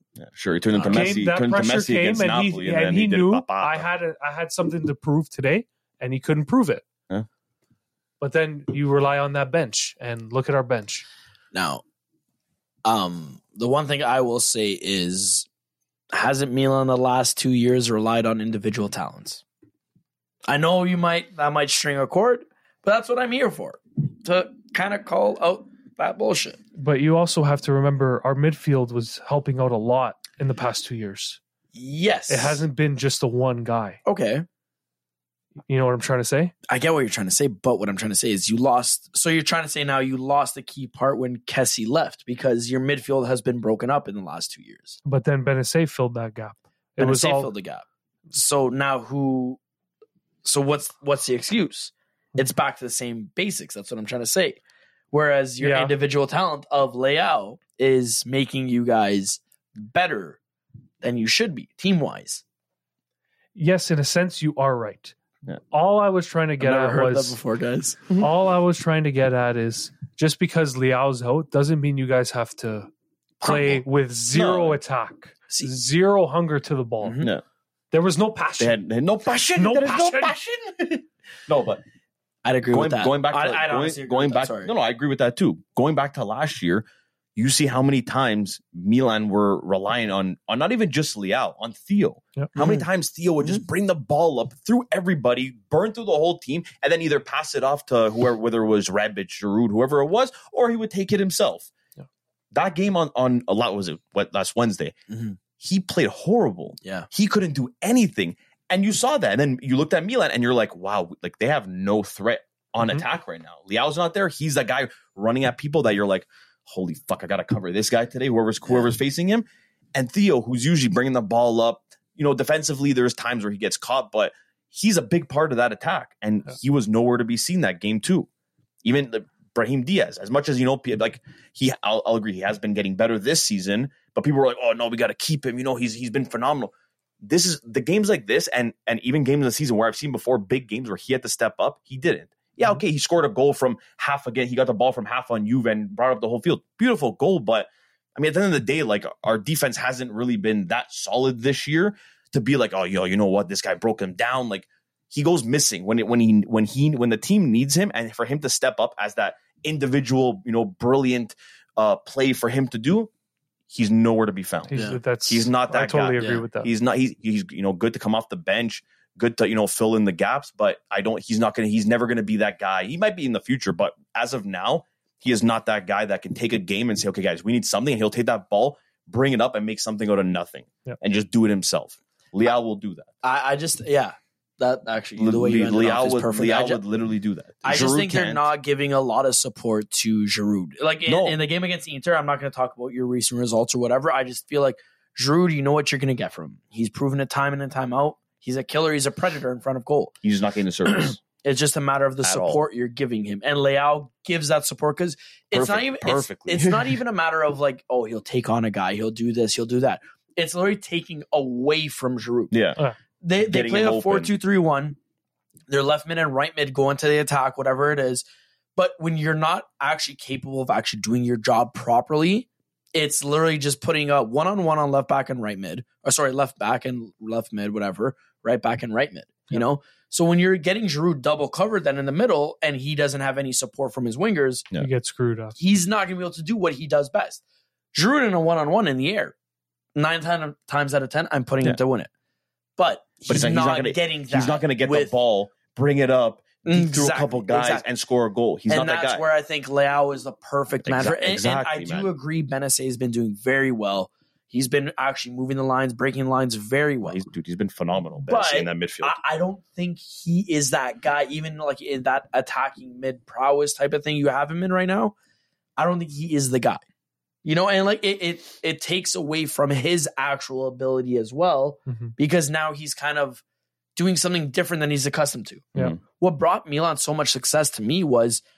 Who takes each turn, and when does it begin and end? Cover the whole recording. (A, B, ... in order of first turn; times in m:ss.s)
0:00.2-0:03.9 A
0:00.8-0:01.1 B
0:00.9-0:06.8 C
0:08.2-0:11.1 C
0:11.5-0:11.8 B
0:12.8-0:15.5 B
0:16.1-0:19.4 B
0:20.5-0:26.6 B
0:26.8-0:31.4 C
0:31.7-0:32.6 B
0:32.3-0:34.0 C
0:34.0-0:34.5 B
0:35.7-0:36.5 C
0:36.7-0:45.0 B
0:45.0-0:47.5 C
0:47.0-0:49.6 B
0:50.4-0:54.6 B
0:55.1-1:00.4 B
0:55.6-0:56.0 C
1:01.0-1:02.4 B
1:03.6-1:05.2 C
1:05.7-1:07.4 C
1:06.6-1:08.1 B
1:08.1-1:12.9 C
1:13.4-1:13.8 B
1:13.4-1:17.2 C
1:14.3-1:14.8 A
1:17.0-1:17.3 B
1:17.9-1:18.8 C
1:18.6-1:21.8 A
1:19.6-1:20.4 C
1:22.4-1:24.7 B
1:22.7-1:41.7 A
1:32.6-1:32.9 B
1:42.5-1:45.0 A
1:45.1-1:45.4 B
1:45.6-2:08.3 A
1:46.8-1:47.1 B
2:08.8-2:43.1 A
2:43.7-3:03.1 A
2:44.7-2:46.7 C
2:44.7-2:45.0 B
2:46.2-2:46.4 B
3:03.2-3:06.8 B
3:05.2-3:08.5 A
3:07.6-3:20.2 B
3:11.1-3:11.4 A
3:20.2-3:21.2 A
3:20.9-3:32.5 B
3:22.2-3:22.6 A
3:25.5-3:27.0 A
3:32.5-3:32.8 A
3:33.2-3:35.0 B
3:33.4-3:34.4 A
3:35.7-3:38.2 B
3:38.8-3:54.7 B
3:54.8-3:55.6 C
3:55.6-3:57.4 B
3:57.9-3:59.4 B
4:00.0-4:02.1 B
4:02.8-4:05.1 B
4:03.3-4:09.2 A
4:06.6-4:07.8 B
4:08.7-4:17.2 B
4:10.8-4:12.1 A
4:17.0-4:19.2 A
4:18.2-4:25.2 B
4:25.8-4:26.8 B
4:27.4-4:33.4 B
4:31.9-4:32.1 C
4:34.0-4:38.4 B